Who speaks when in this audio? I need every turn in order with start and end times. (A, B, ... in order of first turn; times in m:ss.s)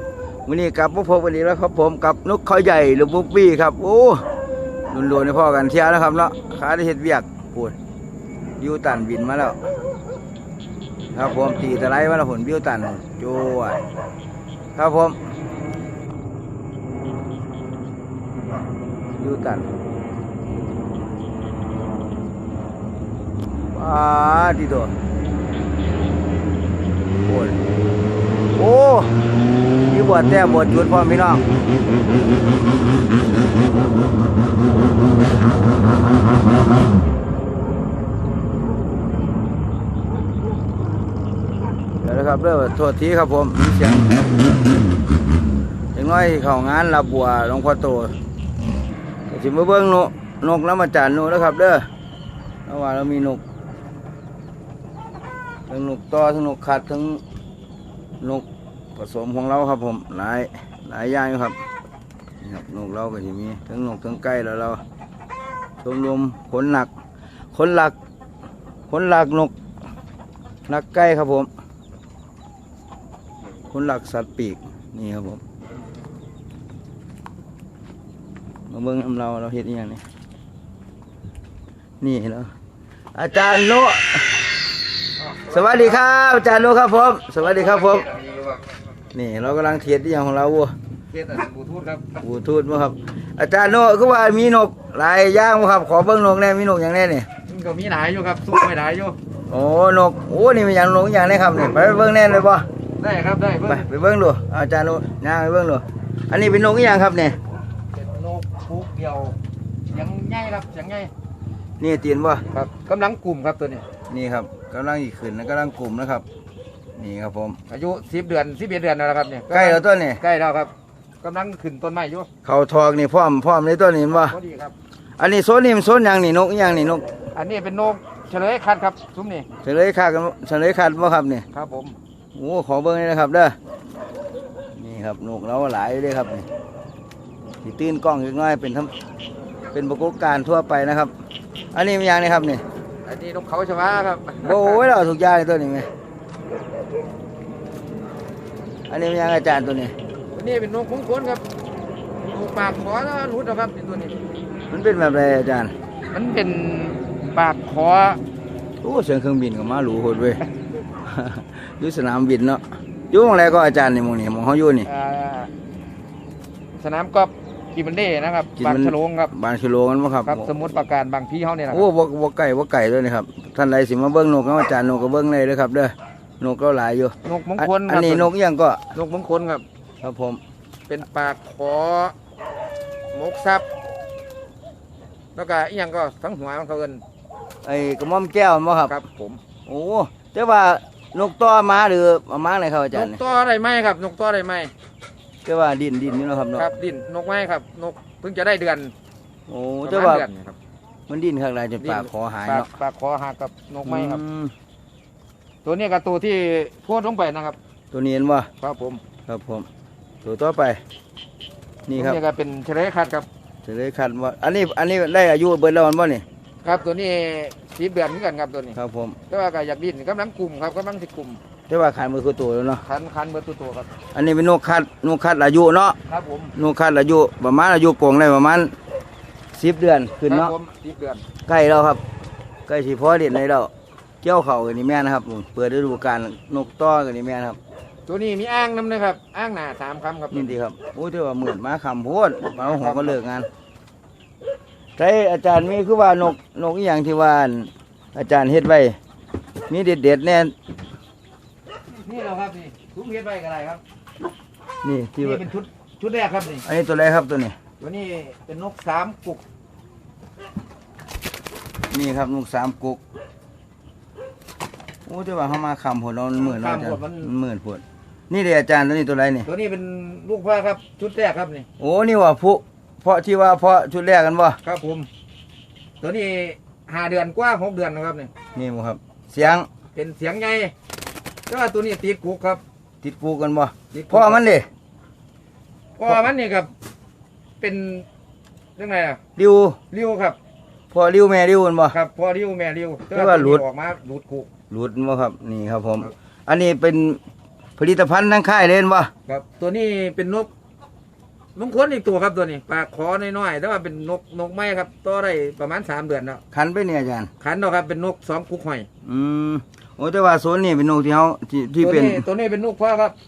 0:00.4-0:04.2 A
0:04.9-0:07.8 A
0:08.6-0:09.6 A
0:11.1-0:13.8 A
0:14.8-0:15.2 A
0:19.2-0:19.6 A
0:23.7-0:24.9 A
0:27.2-0:27.6 A
0:28.5-0:29.1 A
0:29.9-0:31.4 A
0:42.0-0:44.2 A
0:45.9-0:48.1 A
0:49.3-0:51.8 A
0:52.6-0:53.4 A
0:55.7-0:57.2 A
0:58.2-1:01.6 A
1:02.4-1:04.8 A
1:05.8-1:06.9 A
1:07.5-1:08.0 A
1:08.9-1:09.5 A
1:10.7-1:11.5 A
1:13.7-1:15.4 A
1:18.7-1:20.0 A
1:22.0-1:22.5 A
1:23.1-1:24.4 A
1:25.3-1:26.0 B
1:25.5-1:28.1 A
1:27.8-1:28.6 B
1:29.1-1:30.7 A
1:31.1-1:32.2 B
1:32.2-1:37.3 A
1:37.5-1:39.2 B
1:39.5-1:42.7 A
1:43.0-1:43.8 B
1:43.6-1:47.4 A
1:47.9-1:49.4 B
1:49.9-1:51.1 B
1:51.8-1:52.4 A
1:52.5-1:53.8 B
1:54.1-1:56.2 A
1:57.0-1:57.6 A
1:57.7-2:02.3 B
1:59.5-2:00.2 A
2:02.4-2:04.4 A
2:04.1-2:04.7 B
2:05.2-2:07.0 A
2:07.3-2:09.4 B
2:09.6-2:11.4 A
2:11.5-2:11.9 B
2:12.3-2:13.6 A
2:14.7-2:16.5 A
2:17.6-2:18.9 A
2:19.7-2:21.1 A
2:21.7-2:22.6 A
2:23.0-2:24.8 B
2:24.4-2:25.9 A
2:28.9-2:29.9 A
2:30.3-2:31.4 B
2:32.2-2:34.2 B
2:34.7-2:35.7 A
2:36.1-2:38.2 B
2:38.8-2:40.4 A
2:41.0-2:44.9 A
2:44.8-2:45.5 B
2:46.8-2:49.3 B
2:48.6-2:50.5 A
2:50.2-2:51.8 B
2:51.7-2:58.8 A
2:57.2-2:58.3 B
2:58.9-2:59.6 B
3:00.0-3:00.4 A
3:00.9-3:02.1 B
3:03.1-3:03.6 B
3:05.3-3:07.0 B
3:07.6-3:09.0 A
3:08.8-3:09.4 B
3:09.6-3:13.2 A
3:12.9-3:14.7 B
3:15.4-3:16.7 A
3:16.6-3:18.9 B
3:19.5-3:20.2 A
3:19.8-3:20.6 B
3:21.1-3:22.7 A
3:21.8-3:24.2 B
3:23.8-3:24.5 A
3:25.6-3:27.6 B
3:27.9-3:28.5 A
3:28.6-3:29.0 B
3:29.3-3:29.7 A
3:30.2-3:30.8 A
3:31.9-3:32.2 A
3:31.9-3:33.3 B
3:33.6-3:36.2 A
3:36.6-3:38.8 B
3:38.7-3:39.2 A
3:39.3-3:41.4 B
3:41.7-3:42.8 A
3:42.8-3:43.9 B
3:44.1-3:46.0 A
3:46.0-3:46.5 B
3:46.5-3:48.7 A
3:49.5-3:50.5 A
3:50.3-3:51.2 B
3:51.5-3:52.0 A
3:52.7-3:53.7 A
3:54.2-3:57.6 A
3:58.0-4:00.5 B
4:00.3-4:03.5 A
4:02.6-4:03.2 B
4:05.0-4:09.0 A
4:09.7-4:10.5 A
4:11.9-4:13.8 B
4:14.8-4:15.4 A
4:15.2-4:16.6 B
4:16.6-4:17.6 A
4:17.8-4:19.4 B
4:21.9-4:23.0 A
4:25.0-4:29.5 A
4:26.4-4:27.3 B
4:29.4-4:31.6 B
4:31.8-4:34.6 A
4:34.6-4:35.1 B
4:36.0-4:38.3 B
4:38.5-4:39.7 A
4:39.9-4:40.7 B
4:41.5-4:42.6 B
4:43.0-4:44.7 A
4:43.9-4:44.4 B
4:46.0-4:46.7 B
4:47.6-4:48.0 B
4:48.8-4:49.2 B
4:49.4-4:49.8 A
4:49.9-4:50.4 B
4:50.9-4:52.0 A
4:51.9-4:54.5 B
4:53.1-4:53.6 A
4:54.7-4:57.2 A
4:57.8-4:59.1 A
4:59.2-5:00.5 B
5:01.6-5:06.4 B
5:06.5-5:07.3 A
5:07.4-5:08.9 B
5:09.0-5:12.2 A
5:11.8-5:13.1 B